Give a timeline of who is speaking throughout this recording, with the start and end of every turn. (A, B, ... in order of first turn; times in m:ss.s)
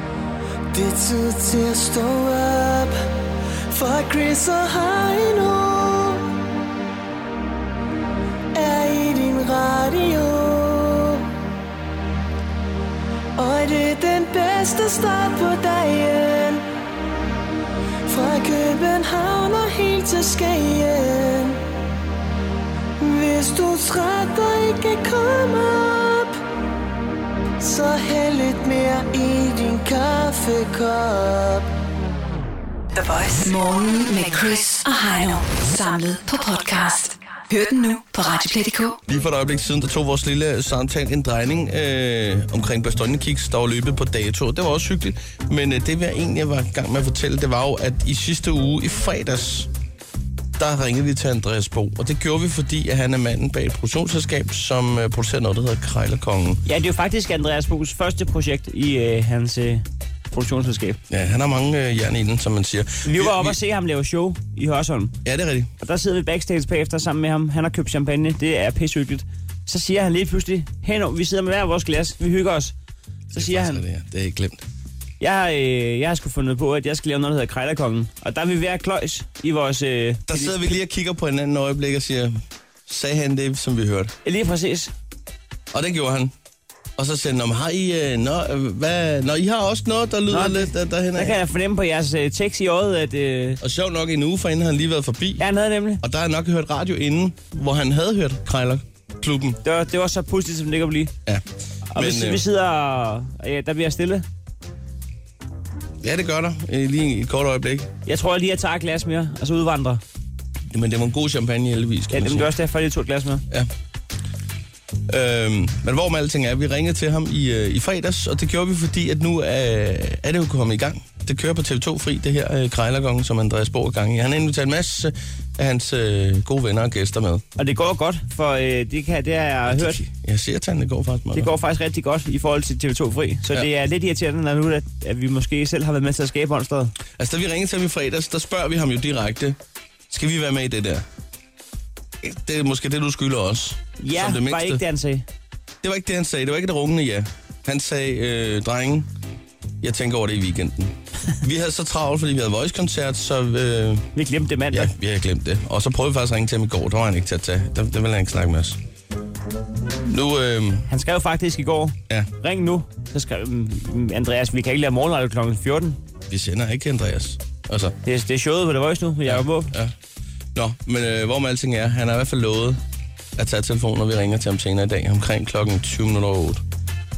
0:00.7-0:02.9 A
0:03.7-0:06.3 A
0:08.5-0:11.3 A
0:13.4-0:16.6 A
0:18.1-0:21.6 A
0:23.0-0:26.4 A
0:27.6-0:31.7 A
0:33.0-0:39.0 B
0:39.1-0:49.7 C
0:50.6-0:56.6 C
0:56.7-1:01.0 D
1:01.1-1:03.6 C
1:03.0-1:05.2 D
1:05.2-1:05.7 C
1:05.8-1:12.7 D
1:13.3-1:14.6 C
1:13.3-1:13.8 D
1:15.2-1:20.8 D
1:20.3-1:22.4 C
1:22.9-1:24.1 C
1:24.2-1:24.9 D
1:25.7-1:26.3 C
1:27.0-1:31.4 C
1:30.3-1:33.6 D
1:33.6-1:35.4 C
1:35.4-1:36.0 D
1:36.0-1:39.6 C
1:39.6-1:41.1 D
1:41.9-1:44.2 D
1:42.0-1:42.4 C
1:46.0-1:47.9 C
1:48.1-1:50.0 D
1:50.7-1:52.5 C
1:52.1-1:53.4 D
1:55.1-2:07.4 C
2:07.6-2:10.0 D
2:09.7-2:11.5 C
2:11.3-2:16.9 D
2:17.2-2:19.6 C
2:20.1-2:21.0 C
2:22.2-2:24.8 C
2:24.0-2:25.2 D
2:25.8-2:29.1 C
2:29.8-2:34.1 C
2:34.2-2:34.9 D
2:34.7-2:38.8 C
2:40.0-2:40.9 C
2:40.9-2:46.0 D
2:46.3-2:48.0 C
2:48.0-2:49.7 D
2:49.2-2:49.9 C
2:50.6-2:52.8 C
2:53.4-2:56.6 C